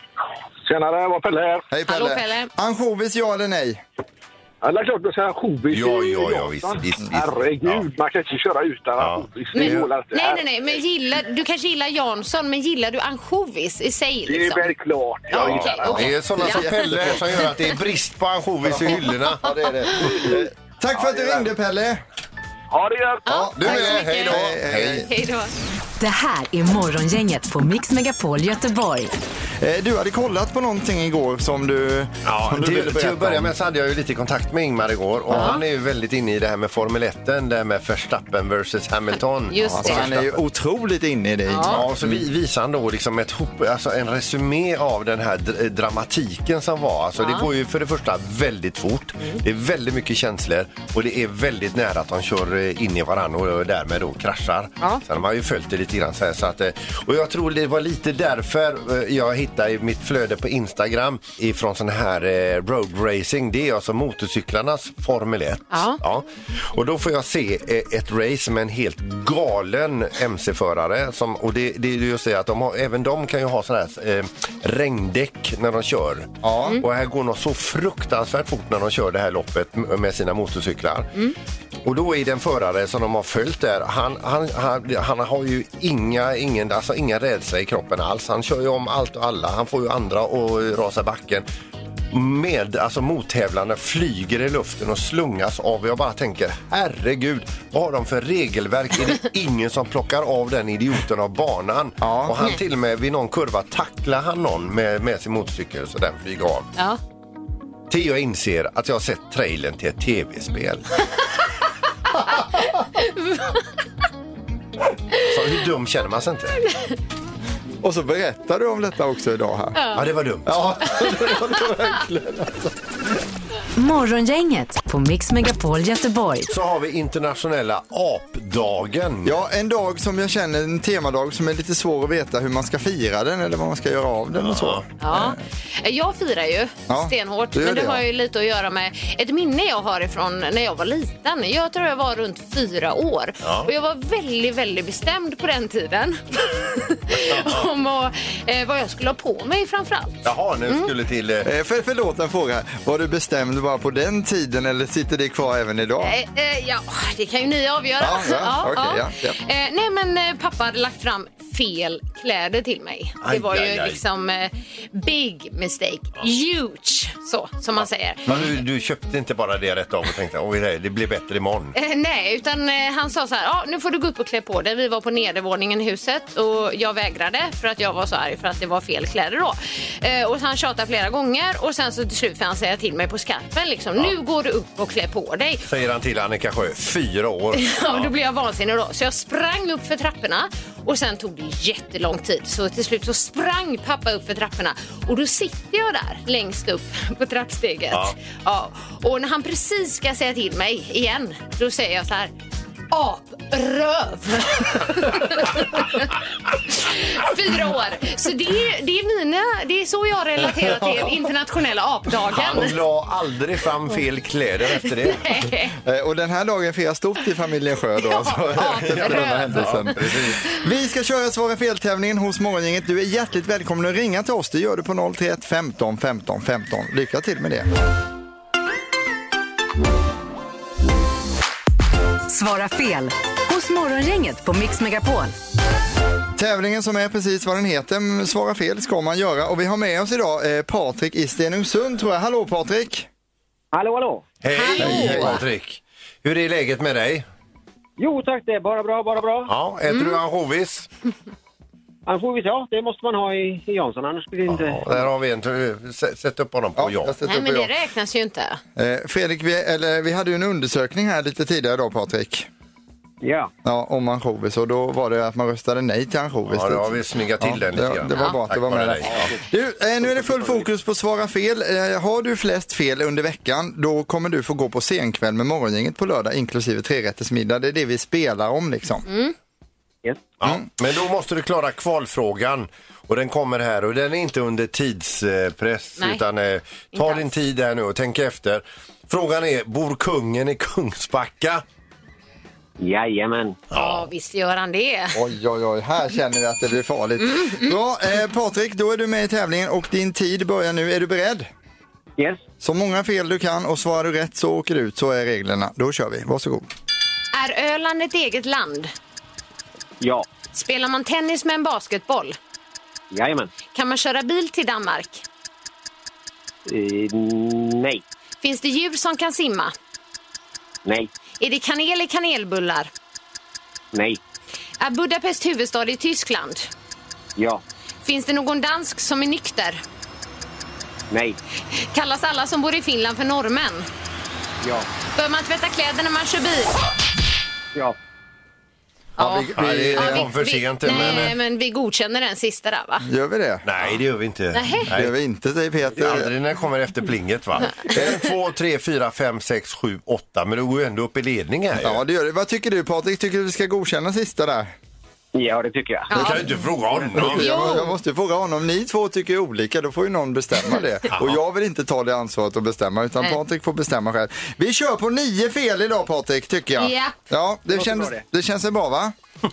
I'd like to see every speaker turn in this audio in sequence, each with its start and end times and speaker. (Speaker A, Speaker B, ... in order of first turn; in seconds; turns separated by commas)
Speaker A: 0.7-1.7, Speaker B: 1.7-3.8, Speaker C: 1.9-2.5, Speaker A: 4.6-10.5, Speaker D: 5.7-7.9, Speaker D: 9.0-9.9, Speaker C: 9.5-14.7, Speaker A: 14.3-16.1, Speaker C: 15.3-17.6, Speaker D: 15.3-19.5, Speaker B: 16.1-17.3, Speaker B: 18.6-22.0, Speaker C: 19.9-20.4, Speaker A: 20.9-21.5, Speaker A: 22.7-23.2, Speaker B: 23.3-25.1, Speaker C: 23.3-25.5, Speaker D: 23.6-25.1, Speaker E: 26.0-29.1, Speaker B: 29.6-33.5, Speaker D: 32.2-40.4, Speaker B: 35.3-35.6, Speaker C: 35.3-35.6, Speaker C: 39.5-40.1, Speaker B: 39.6-42.2, Speaker C: 41.5-41.9, Speaker D: 41.6-81.1, Speaker C: 47.2-47.5, Speaker C: 65.7-66.0, Speaker B: 76.4-76.8, Speaker D: 81.8-91.5, Speaker D: 92.1-106.7, Speaker B: 102.0-102.4, Speaker D: 107.9-111.0, Speaker C: 112.3-113.7, Speaker D: 115.3-116.6, Speaker C: 116.7-116.9, Speaker B: 117.8-119.8, Speaker C: 119.8-120.0, Speaker D: 119.9-120.7, Speaker B: 120.5-122.9, Speaker C: 120.9-121.3, Speaker E: 123.8-126.5, Speaker D: 126.5-129.4, Speaker B: 129.2-135.4, Speaker D: 134.4-134.9, Speaker C: 135.0-150.9, Speaker B: 136.9-138.0, Speaker D: 143.4-143.7, Speaker D: 147.3-147.7, Speaker D: 150.2-151.5, Speaker B: 151.4-156.2, Speaker C: 156.0-168.4, Speaker B: 158.0-159.4, Speaker D: 163.2-164.0, Speaker D: 167.8-171.7, Speaker C: 171.7-185.7, Speaker D: 185.7-188.1, Speaker C: 187.5-202.3, Speaker C: 202.9-206.1, Speaker C: 206.7-212.8, Speaker D: 212.3-215.2, Speaker C: 215.1-215.8, Speaker B: 215.8-227.7, Speaker C: 218.0-219.9, Speaker D: 218.6-220.5, Speaker E: 232.3-235.3, Speaker B: 236.4-243.1, Speaker F: 243.7-244.3, Speaker D: 244.4-247.3, Speaker C: 244.5-245.4, Speaker B: 244.8-245.4, Speaker F: 248.0-249.5, Speaker D: 249.5-250.9, Speaker C: 249.9-250.2, Speaker F: 252.1-255.1, Speaker D: 254.5-257.2, Speaker B: 256.8-257.7, Speaker C: 257.2-258.6, Speaker B: 258.8-262.5, Speaker F: 263.2-263.5, Speaker B: 263.6-279.1, Speaker D: 266.5-269.3, Speaker F: 270.4-270.6, Speaker C: 279.1-279.4, Speaker D: 280.4-291.6, Speaker C: 286.9-287.3, Speaker F: 292.8-293.6, Speaker D: 293.7-294.1, Speaker C: 293.7-295.2, Speaker B: 295.1-301.5, Speaker C: 297.3-297.8, Speaker B: 302.6-306.7, Speaker C: 307.3-308.9, Speaker F: 310.0-310.3, Speaker C: 310.5-312.4, Speaker F: 313.1-313.5, Speaker C: 313.7-315.2, Speaker F: 316.7-318.0, Speaker C: 318.4-319.7, Speaker F: 320.9-321.1, Speaker C: 321.4-322.9, Speaker F: 323.9-324.2, Speaker C: 324.8-326.7, Speaker F: 327.4-327.6, Speaker C: 328.0-329.8, Speaker F: 331.1-331.4, Speaker C: 331.7-333.9, Speaker F: 334.6-334.9, Speaker C: 335.1-336.8, Speaker C: 339.2-343.1, Speaker B: 339.2-340.3, Speaker D: 339.2-341.4, Speaker B: 340.9-341.3, Speaker B: 343.0-343.7, Speaker D: 343.6-345.1, Speaker C: 344.5-344.9, Speaker B: 344.9-346.3, Speaker D: 346.0-352.0, Speaker B: 351.8-354.7, Speaker F: 355.3-356.1, Speaker C: 356.1-356.5, Speaker D: 356.1-357.5, Speaker B: 356.1-356.6, Speaker B: 357.1-369.1, Speaker C: 357.2-357.9, Speaker D: 361.1-361.4, Speaker C: 366.8-367.2, Speaker F: 367.7-368.2